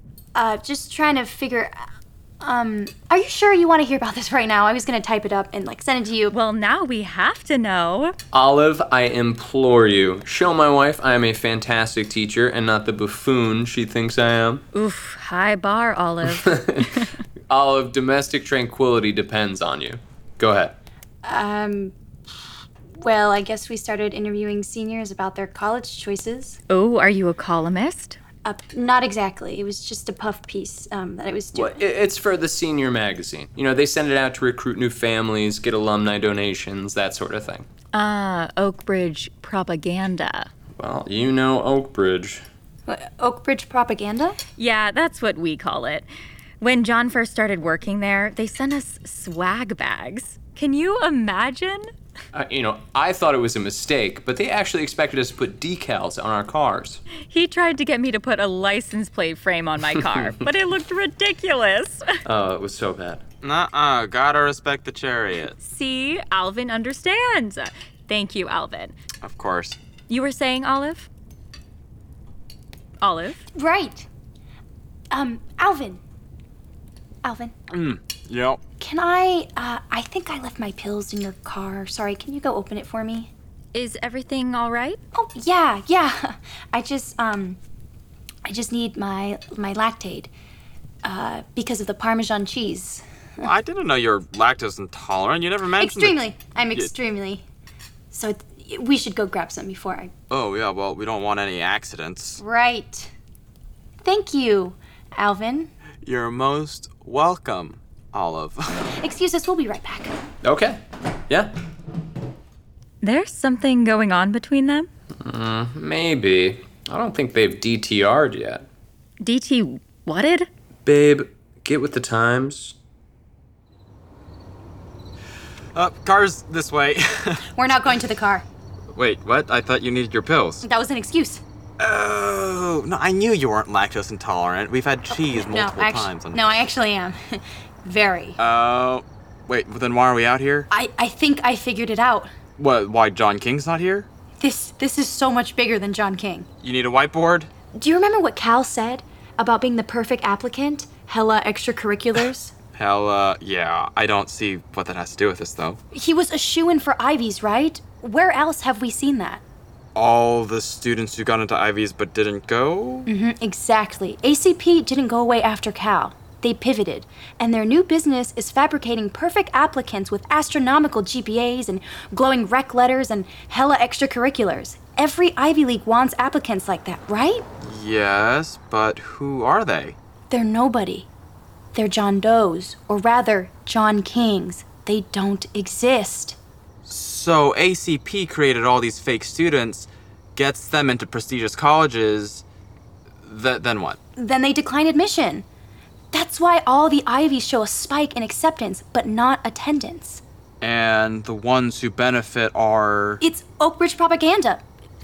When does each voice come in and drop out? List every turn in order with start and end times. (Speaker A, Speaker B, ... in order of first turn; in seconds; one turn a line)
Speaker A: 0.3-1.8
Speaker A: 2.4-6.3
Speaker B: 6.3-8.1
Speaker C: 8.3-14.6
Speaker B: 14.7-17.0
Speaker C: 16.2-20.8
Speaker A: 21.2-21.9
Speaker A: 22.9-26.6
Speaker B: 26.7-28.2
Speaker A: 28.4-31.8
Speaker C: 31.5-37.7
Speaker B: 37.9-40.5
Speaker C: 40.8-42.4
Speaker A: 42.9-44.4
Speaker B: 44.6-46.1
Speaker B: 46.6-51.9
Speaker C: 52.3-57.0
Speaker B: 57.2-62.0
Speaker C: 59.9-60.5
Speaker C: 62.2-63.2
Speaker D: 63.4-65.5
Speaker B: 65.6-68.9
Speaker D: 69.2-69.8
Speaker B: 70.1-71.1
Speaker B: 73.0-73.4
Speaker A: 73.5-74.1
Speaker A: 75.1-76.0
Speaker A: 77.2-77.5
Speaker D: 77.7-78.6
Speaker A: 78.8-83.3
Speaker B: 83.7-85.0
Speaker A: 85.1-87.6
Speaker A: 88.4-90.3
Speaker A: 91.0-93.0
Speaker D: 93.4-96.2
Speaker A: 95.8-97.4
Speaker A: 98.1-100.1
Speaker D: 100.3-102.4
Speaker A: 102.4-103.1
Speaker A: 104.0-105.7
Speaker D: 106.0-108.9
Speaker A: 109.0-110.1
Speaker C: 110.4-111.5
Speaker B: 113.0-114.9
Speaker C: 115.2-118.6
Speaker B: 119.2-120.5
Speaker C: 120.8-122.8
Speaker D: 125.7-127.4
Speaker A: 127.5-128.4
Speaker D: 128.9-130.6
Speaker A: 130.6-131.4
Speaker D: 131.8-136.5
Speaker A: 135.1-138.4
Speaker D: 138.4-140.7
Speaker A: 140.7-142.3
Speaker D: 142.6-144.1
Speaker A: 144.4-146.5
Speaker D: 146.6-147.5
Speaker A: 147.7-152.5
Speaker D: 152.7-155.8
Speaker A: 155.9-159.4
Speaker D: 159.9-163.1
Speaker A: 163.1-177.4
Speaker D: 177.6-179.9
Speaker A: 180.3-181.1
Speaker A: 181.7-186.4
Speaker D: 186.8-192.4
Speaker D: 193.2-194.0
Speaker A: 194.2-195.4
Speaker A: 196.1-200.2
Speaker D: 200.6-203.2
Speaker A: 203.2-204.6